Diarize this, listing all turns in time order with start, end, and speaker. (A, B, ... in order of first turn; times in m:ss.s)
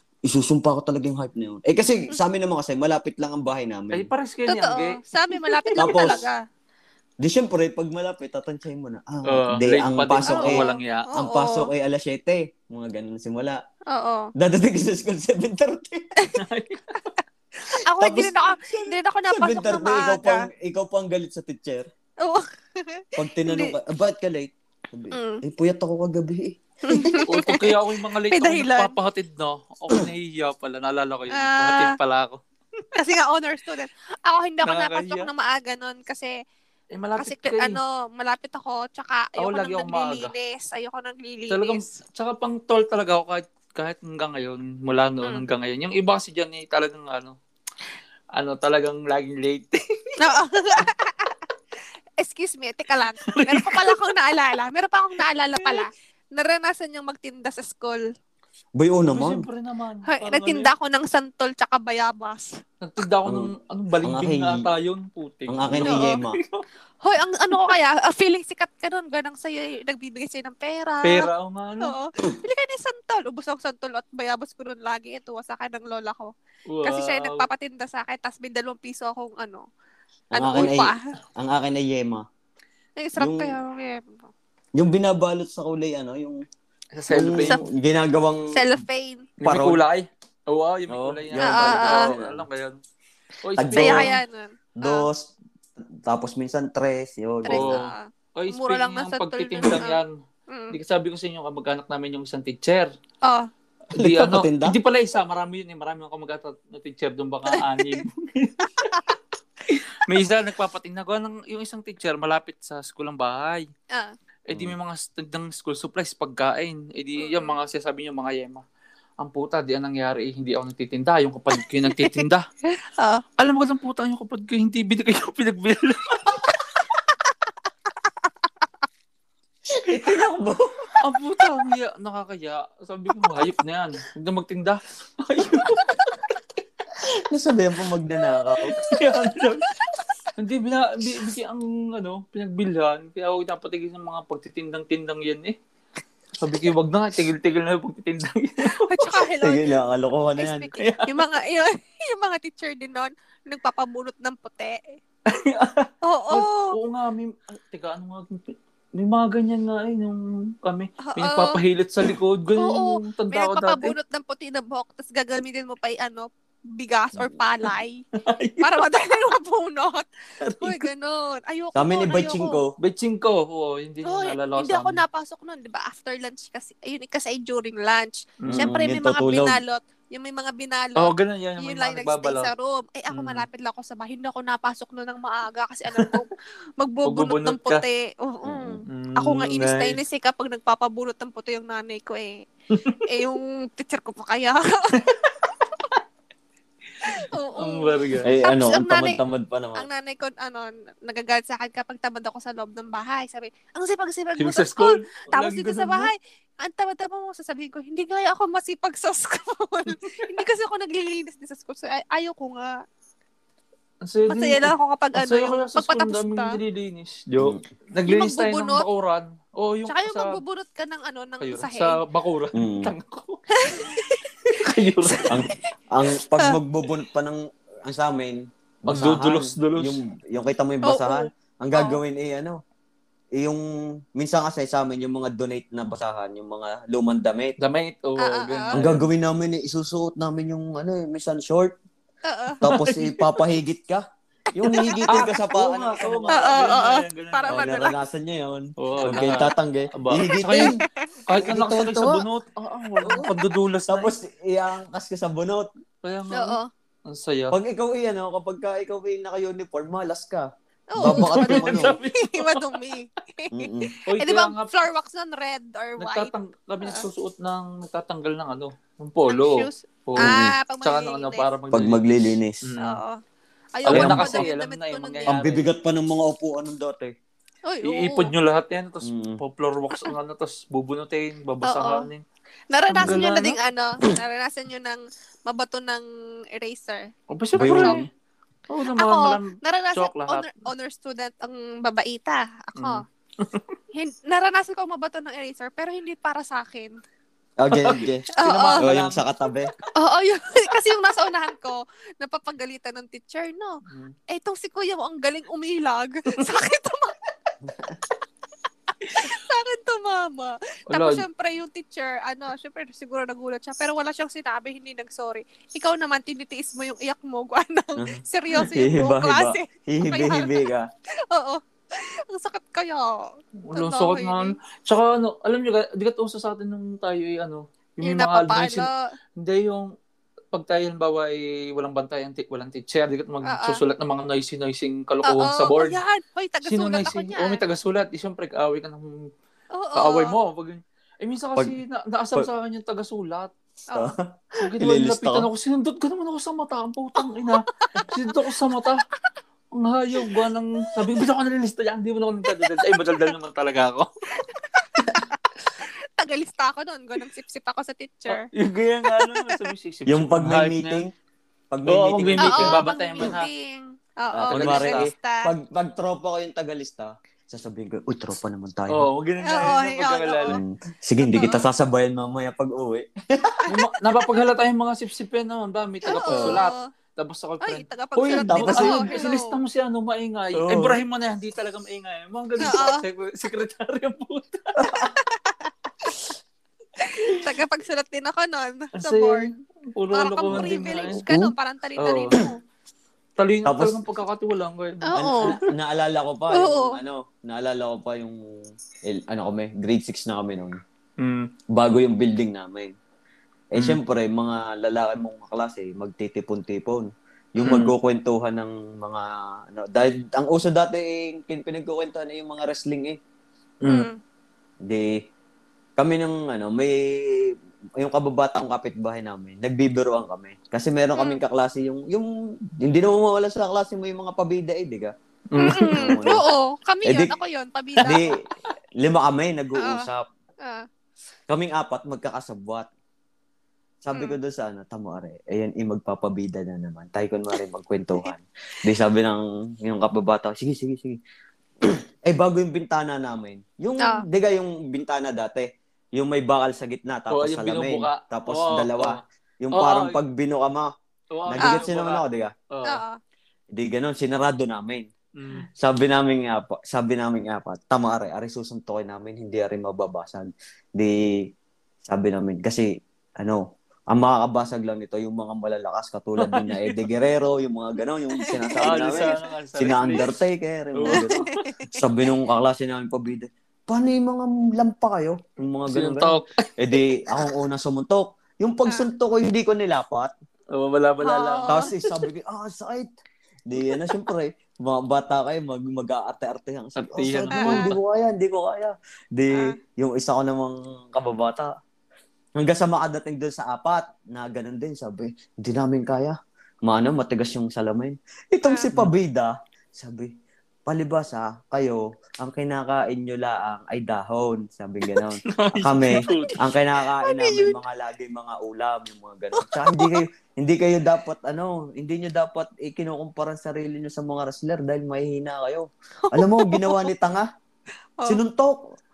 0:00.2-0:04.1 A
0:03.9-0:05.9 B
0:04.5-0:06.4 C
0:05.8-0:06.3 A
0:07.2-0:10.6 A
0:09.2-0:11.1 B
0:10.3-0:11.7 C
0:11.2-0:13.6 A
0:13.9-0:14.3 C
0:14.4-0:16.1 A
0:16.3-0:17.0 B
0:17.7-0:20.4 C
0:18.0-0:21.9 A
0:22.2-0:23.7 C
0:23.2-0:27.3 A
0:25.1-0:25.4 C
0:26.8-0:27.7 C
0:27.2-0:32.4 B
0:28.3-0:28.9 C
0:31.3-0:31.9 C
0:33.0-0:36.3 C
0:34.6-0:35.3 B
0:36.9-0:37.8 B
0:37.2-0:42.0 C
0:39.4-0:40.3 B
0:41.5-0:47.4 B
0:48.3-0:50.2 B
0:50.2-0:51.3 C
0:52.2-0:58.0 C
0:53.3-0:54.0 B
0:55.6-0:55.8 B
0:58.8-0:59.5 A
0:59.1-1:00.7 B
1:00.1-1:02.5 C
1:02.8-1:06.6 B
1:03.2-1:03.5 A
1:04.0-1:04.7 A
1:05.5-1:06.4 A
1:05.8-1:06.2 C
1:07.0-1:11.3 C
1:11.0-1:11.9 B
1:11.8-1:16.3 C
1:16.7-1:17.4 B
1:16.8-1:19.6 C
1:20.3-1:22.2 A
1:20.3-1:21.1 C
1:23.0-1:24.3 C
1:23.2-1:23.5 A
1:24.8-1:26.4 A
1:26.9-1:27.6 B
1:27.1-1:28.5 A
1:28.5-1:29.3 C
1:29.4-1:32.8 B
1:29.4-1:29.8 A
1:30.9-1:32.4 A
1:31.4-1:32.1 C
1:33.4-1:34.1 B
1:33.6-1:34.1 A
1:33.7-1:35.1 C
1:34.8-1:37.7 A
1:37.4-1:40.8 C
1:37.5-1:40.1 B
1:40.7-1:42.9 B
1:43.9-1:48.9 B
1:43.9-1:44.8 A
1:47.5-1:48.0 C
1:48.8-1:49.2 C
1:49.7-1:53.7 B
1:54.5-1:58.6 B
1:57.2-1:57.6 C
1:59.2-2:02.4 B
2:01.9-2:02.2 C
2:02.8-2:03.2 C
2:03.4-2:06.4 B
2:09.7-2:10.8 A
2:11.0-2:16.0 B
2:17.3-2:18.8 A
2:18.6-2:19.7 B
2:20.4-2:25.6 B
2:26.4-2:29.2 B
2:28.8-2:29.6 C
2:29.4-2:30.7 A
2:30.4-2:34.8 C
2:30.7-2:31.2 B
2:35.3-2:43.9 B
2:36.0-2:36.8 C
2:41.0-2:41.6 C
2:42.6-2:48.0 C
2:48.2-2:48.9 B
2:48.6-2:50.1 C
2:50.4-2:50.9 B
2:50.6-2:52.6 C
2:51.7-2:52.7 A
2:52.8-2:55.0 B
2:54.0-3:12.4 C
2:58.4-2:58.7 B
2:58.5-2:59.6 A
3:01.0-3:02.5 B
3:03.1-3:03.4 B
3:07.0-3:07.8 B
3:08.4-3:08.8 A
3:08.9-3:10.0 B
3:12.8-3:13.0 B
3:13.0-3:15.3 C
3:17.0-3:19.2 C
3:17.1-3:18.3 B
3:18.2-3:19.8 A
3:19.8-3:32.8 C
3:24.4-3:26.1 B
3:34.0-3:40.4 B
3:34.3-3:36.6 C
3:38.0-3:38.8 C
3:39.9-3:42.0 C
3:41.4-3:44.0 B
3:42.5-3:42.9 A
3:43.6-3:44.2 C
3:44.5-3:45.4 B
3:45.1-3:45.4 C
3:45.3-3:52.6 A
3:48.9-3:50.0 B
3:50.8-3:52.0 C
3:53.4-3:57.6 A
3:57.6-3:59.1 B
3:58.2-3:58.8 C
3:58.7-4:01.8 A
4:02.2-4:02.6 C
4:02.6-4:06.7 A
4:02.6-4:03.4 B
4:04.6-4:05.1 C
4:05.1-4:07.7 B
4:06.3-4:07.9 C
4:07.5-4:10.8 A
4:08.8-4:10.7 B
4:10.4-4:10.8 C
4:11.3-4:14.1 B
4:11.3-4:12.2 A
4:13.0-4:13.3 A
4:13.9-4:15.7 A
4:16.0-4:17.6 B
4:16.3-4:16.7 C
4:17.5-4:22.0 A
4:20.9-4:26.3 C
4:21.0-4:22.8 B
4:23.5-4:23.9 A
4:24.0-4:24.7 B
4:26.0-4:32.0 B
4:29.3-4:31.5 C
4:30.2-4:30.5 A
4:31.7-4:32.6 A
4:32.6-4:33.0 B
4:32.8-4:33.2 C
4:33.7-4:35.4 C
4:33.8-4:35.7 B
4:33.9-4:34.5 A
4:35.3-4:37.1 A
4:37.7-4:38.3 C
4:37.8-4:42.2 B
4:39.0-4:39.4 A
4:41.6-4:42.1 C
4:42.7-4:48.0 C
4:42.9-4:43.6 B
4:43.0-4:43.2 A
4:47.3-4:48.1 B
4:47.6-4:48.1 A
4:48.7-4:50.5 B
4:48.9-4:53.0 C
4:52.8-4:53.7 B
4:53.9-4:56.9 C
4:57.6-4:58.3 A
4:57.7-4:59.2 B
4:58.4-4:58.8 C
4:58.8-4:59.7 A
5:00.0-5:03.8 C
5:03.9-5:04.1 B
5:04.3-5:07.2 C
5:07.6-5:08.0 A
5:09.1-5:20.7 C
5:10.9-5:11.2 B
5:18.0-5:20.9 A
5:21.3-5:24.6 C
5:23.6-5:29.9 B
5:28.0-5:29.0 C
5:30.5-5:36.0 B
5:33.4-5:33.8 C
5:35.2-5:37.6 C
5:36.6-5:39.1 B
5:39.7-5:40.4 C
5:40.0-5:43.5 B
5:43.9-5:45.5 A
5:44.6-5:49.0 B
5:47.8-5:48.1 C
5:49.7-5:54.1 B
5:54.5-5:55.4 C
5:56.2-5:58.5 C
5:58.3-6:01.0 B
5:59.1-5:59.6 C
6:00.1-6:01.1 A
6:01.7-6:02.8 A
6:01.9-6:03.5 B
6:02.4-6:05.5 C
6:04.3-6:09.1 A
6:04.5-6:05.1 B
6:08.9-6:10.6 B
6:09.4-6:10.6 C
6:10.5-6:13.6 A
6:11.2-6:11.6 C
6:13.7-6:24.9 B
6:16.1-6:16.8 C
6:16.3-6:16.6 A
6:17.6-6:19.5 C
6:18.5-6:19.1 A
6:20.6-6:21.0 A
6:22.6-6:23.0 C
6:24.8-6:25.1 A
6:25.2-6:26.2 C
6:27.0-6:29.5 C
6:29.0-6:31.2 B
6:30.1-6:32.6 C
6:30.5-6:31.5 A
6:32.0-6:32.4 B
6:33.4-6:35.7 B
6:33.6-6:34.0 A
6:35.0-6:35.6 C
6:35.1-6:38.4 A
6:36.5-6:37.0 C
6:39.1-6:40.8 A
6:41.2-6:41.5 B
6:41.7-6:42.9 A
6:43.7-6:53.2 A
6:47.6-6:47.9 B
6:53.8-6:54.1 B
6:53.9-6:54.2 C
6:54.8-6:55.1 A
6:56.0-7:05.1 A
7:05.5-7:06.2 B
7:05.6-7:08.2 C
7:05.7-7:06.4 A
7:07.0-7:07.3 A
7:08.0-7:08.4 A
7:09.0-7:10.2 A
7:09.8-7:10.0 C
7:11.5-7:12.9 A
7:14.0-7:21.2 A
7:21.8-7:30.9 A
7:27.3-7:29.2 B
7:29.7-7:30.2 B
7:31.3-7:33.0 B
7:31.4-7:32.5 A
7:32.8-7:33.2 C
7:33.7-7:35.1 A
7:35.4-7:35.7 B
7:35.8-7:41.4 A
7:42.0-8:00.3 A
7:46.4-7:47.0 B
7:48.4-7:49.4 C
7:48.8-7:50.3 B
7:51.0-7:51.6 B
7:51.1-7:51.9 C
7:55.9-7:56.7 B
8:00.7-8:01.9 B
8:01.2-8:01.9 C
8:01.7-8:03.1 A
8:03.7-8:11.7 A
8:07.0-8:08.0 B
8:07.6-8:07.9 C
8:12.6-8:20.3 A
8:20.8-8:37.5 A
8:25.1-8:26.6 B
8:26.2-8:26.5 C
8:27.2-8:27.7 C
8:29.6-8:30.2 C
8:36.2-8:37.1 C
8:38.2-8:38.8 A